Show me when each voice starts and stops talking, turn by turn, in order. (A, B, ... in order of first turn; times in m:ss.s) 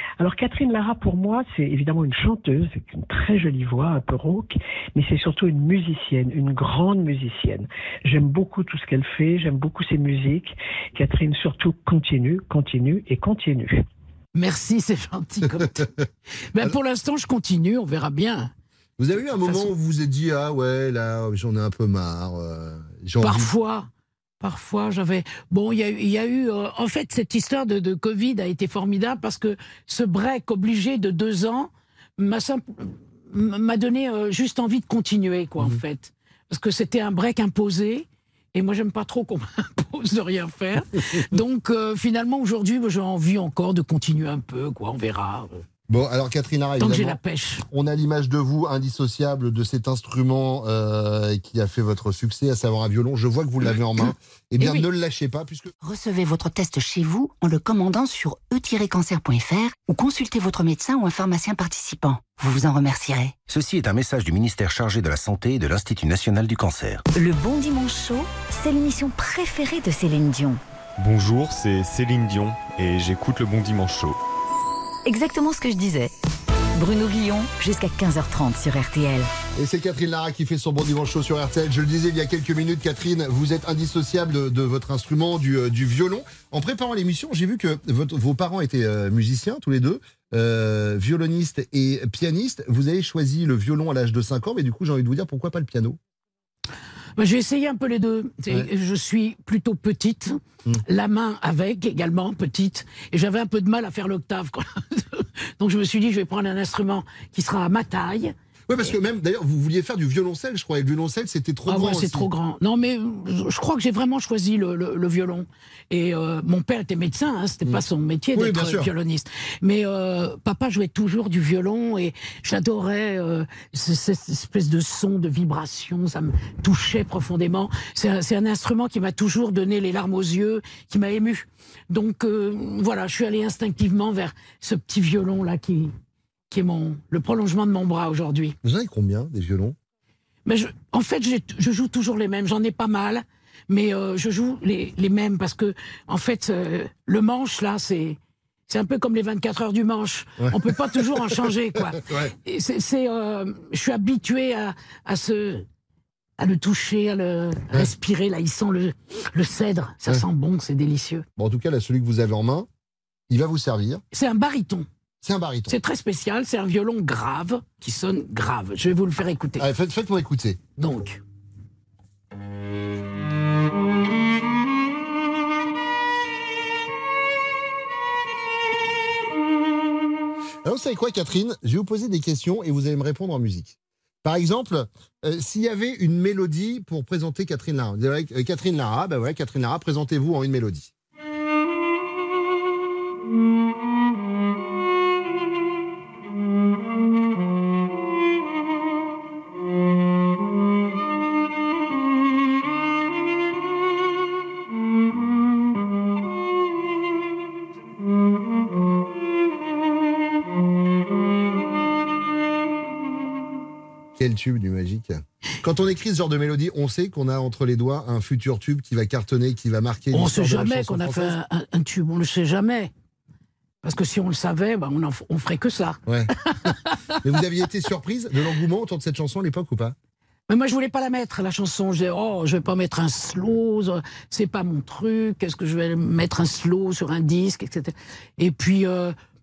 0:00.2-0:13.8 A
0:14.3-0:15.9 B
0:16.5-0:18.5 B
0:19.0-0:23.5 C
0:19.4-0:19.7 B
0:23.2-0:23.9 B
0:24.4-0:45.6 B
0:45.9-0:47.2 C
0:46.8-0:47.6 B
0:47.7-0:55.7 C
0:54.6-0:54.9 B
0:55.8-1:03.4 D
1:03.5-1:07.0 E
1:07.1-1:10.6 F
1:11.0-1:14.1 G
1:15.1-1:16.1 F
1:16.8-1:19.3 F
1:19.6-1:36.0 C
1:37.2-1:48.3 B
1:48.7-1:52.3 C
1:51.7-2:15.9 B
1:58.3-1:58.9 C
2:16.5-2:18.6 B
2:18.6-2:19.8 C
2:20.5-2:35.6 B
2:30.4-2:32.3 C
2:36.4-2:41.2 B
2:41.4-2:42.7 C
2:43.3-2:44.0 C
2:44.1-2:44.9 B
2:45.2-2:45.8 C
2:45.7-2:49.7 B
2:49.6-2:50.6 C
2:50.8-2:51.2 B
3:00.6-3:10.9 C
3:34.2-3:41.4 C
3:40.1-3:42.9 B
3:43.8-3:46.0 B
3:46.1-3:46.7 C
3:46.7-3:47.0 B
3:47.2-3:50.0 C
3:50.5-3:59.1 B